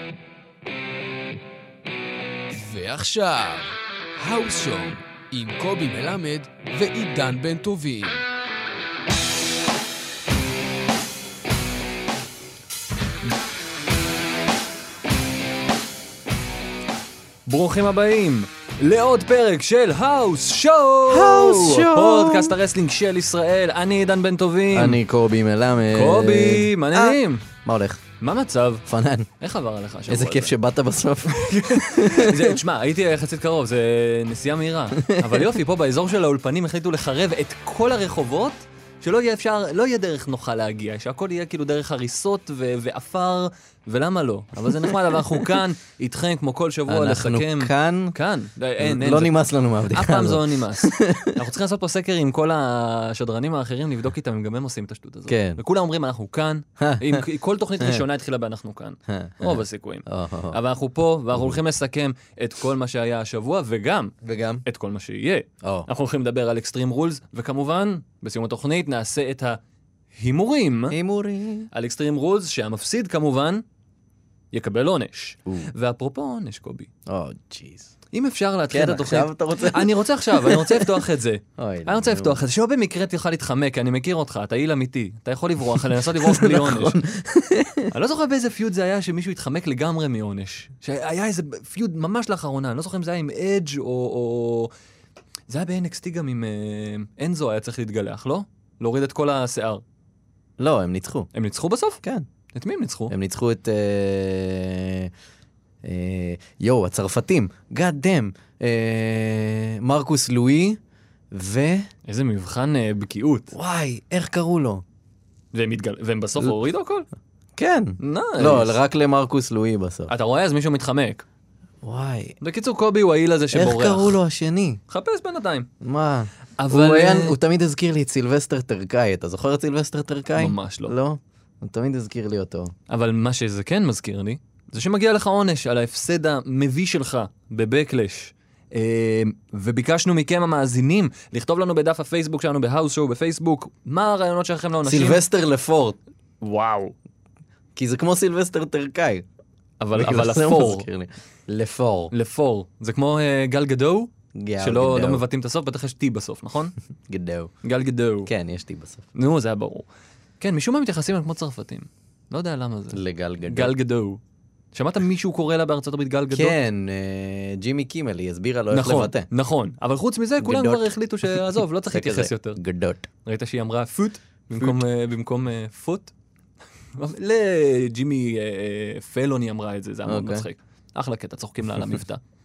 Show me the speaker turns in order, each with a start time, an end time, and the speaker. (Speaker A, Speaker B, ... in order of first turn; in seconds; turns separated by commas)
Speaker A: 2.5-8.2, Speaker B: 17.4-25.0, Speaker C: 21.1-22.6, Speaker C: 24.7-28.0, Speaker B: 25.9-27.5, Speaker B: 28.2-28.9, Speaker C: 28.9-29.3, Speaker B: 29.4-30.5, Speaker C: 30.1-32.6, Speaker B: 31.3-49.3, Speaker C: 35.0-35.4, Speaker C: 44.6-45.5, Speaker C: 46.9-48.1, Speaker C: 48.8-51.4, Speaker B: 49.9-64.1, Speaker C: 55.3-55.6, Speaker C: 56.8-57.2, Speaker C: 57.8-58.0, Speaker C: 59.1-60.6, Speaker C: 61.3-61.6, Speaker C: 64.2-64.6, Speaker B: 64.6-69.6, Speaker C: 65.6-65.9, Speaker B: 70.1-71.0, Speaker C: 70.9-71.7, Speaker B: 71.7-73.6, Speaker B: 74.5-76.9, Speaker C: 77.1-77.9, Speaker B: 78.1-87.0, Speaker C: 78.7-81.0, Speaker C: 81.6-82.4, Speaker C: 86.0-87.9, Speaker B: 87.9-94.7, Speaker B: 95.5-99.8, Speaker C: 100.6-101.3, Speaker B: 101.3-102.0, Speaker B: 102.5-103.1, Speaker C: 103.1-105.1, Speaker C: 105.8-110.8, Speaker C: 111.3-111.9, Speaker B: 112.0-113.5, Speaker C: 113.5-114.8, Speaker B: 115.5-117.1, Speaker C: 117.5-120.1, Speaker B: 118.0-118.8, Speaker B: 120.1-121.2, Speaker C: 121.8-122.4, Speaker B: 122.4-124.2, Speaker C: 123.5-124.8, Speaker B: 124.9-125.7, Speaker C: 125.8-132.7, Speaker B: 126.6-127.4, Speaker B: 130.4-130.9, Speaker B: 132.9-145.2, Speaker C: 144.8-146.0, Speaker B: 146.4-146.9, Speaker C: 147.8-149.2, Speaker B: 149.8-150.9, Speaker C: 149.9-152.1, Speaker B: 152.1-156.7, Speaker C: 154.3-155.2, Speaker C: 157.1-157.5, Speaker B: 157.6-158.3, Speaker C: 158.2-159.1, Speaker B: 159.1-159.8, Speaker B: 160.4-164.2, Speaker C: 162.9-163.7, Speaker B: 164.7-166.6, Speaker C: 166.3-169.3, Speaker B: 168.7-172.6, Speaker C: 170.4-173.0, Speaker B: 173.2-176.1, Speaker B: 176.9-182.2, Speaker C: 180.1-180.4